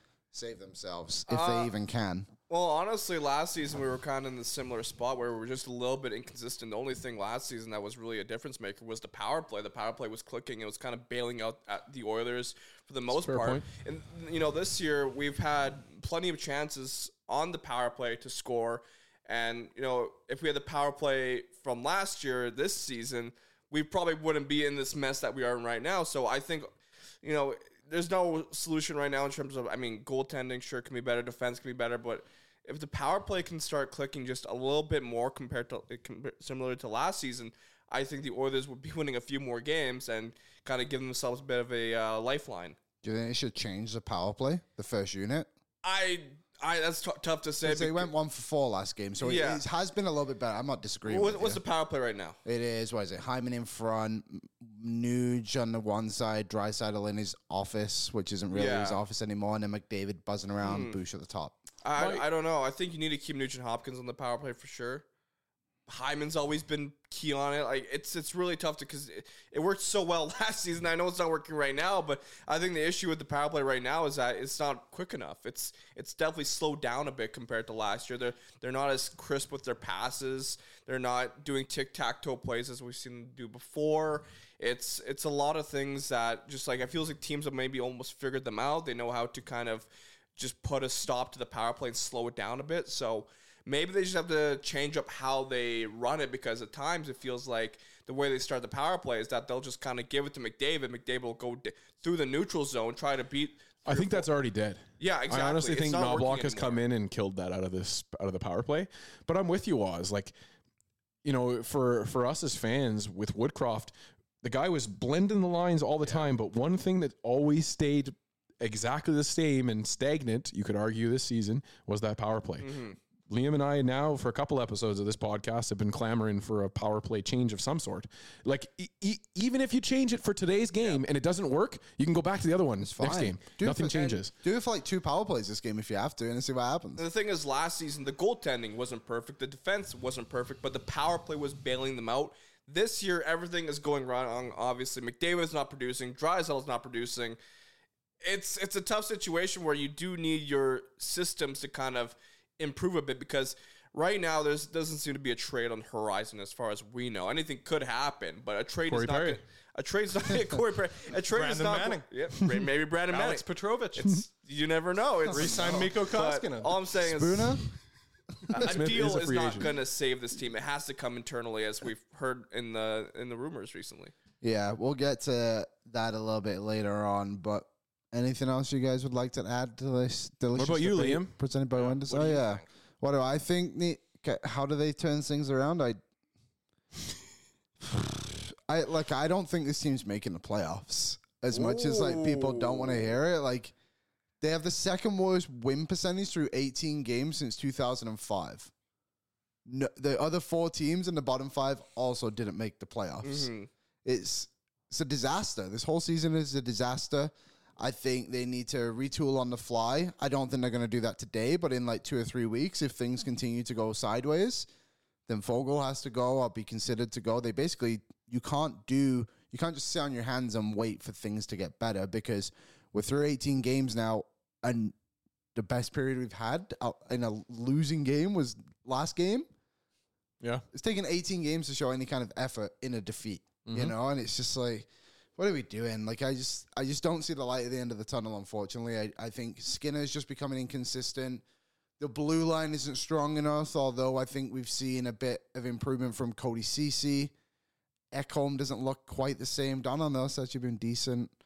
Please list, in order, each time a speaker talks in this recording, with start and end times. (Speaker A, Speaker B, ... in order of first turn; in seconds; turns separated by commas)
Speaker A: 0.3-2.3, Speaker B: 1.3-1.7, Speaker B: 2.5-26.7, Speaker C: 13.1-13.7, Speaker B: 27.2-42.8, Speaker A: 43.0-45.5, Speaker B: 45.8-48.1, Speaker A: 47.6-51.6, Speaker B: 49.2-49.6, Speaker B: 51.0-52.4, Speaker A: 52.4-61.6, Speaker B: 58.5-59.0, Speaker B: 60.6-61.0, Speaker B: 61.8-65.0, Speaker C: 62.0-62.2, Speaker B: 65.9-104.3, Speaker C: 103.8-110.3, Speaker B: 105.0-106.8, Speaker C: 111.2-122.7, Speaker B: 122.6-123.0, Speaker C: 123.3-134.3, Speaker A: 132.8-137.0, Speaker B: 137.0-147.4, Speaker B: 148.2-163.4, Speaker C: 158.9-159.4, Speaker D: 161.3-162.1, Speaker D: 163.1-164.1, Speaker B: 163.9-167.5, Speaker D: 165.3-166.8, Speaker A: 165.3-165.8, Speaker A: 166.9-167.6, Speaker B: 168.5-174.1, Speaker C: 168.5-169.7, Speaker A: 174.4-186.0, Speaker C: 180.5-181.3, Speaker D: 181.7-182.7, Speaker A: 187.8-193.7, Speaker B: 191.5-193.1, Speaker A: 194.4-198.7, Speaker A: 199.7-203.5, Speaker B: 203.2-203.7, Speaker A: 204.0-214.7, Speaker A: 215.3-224.9, Speaker A: 225.5-229.5, Speaker A: 230.7-241.4, Speaker C: 233.7-233.9, Speaker A: 242.0-247.3, Speaker A: 248.1-251.3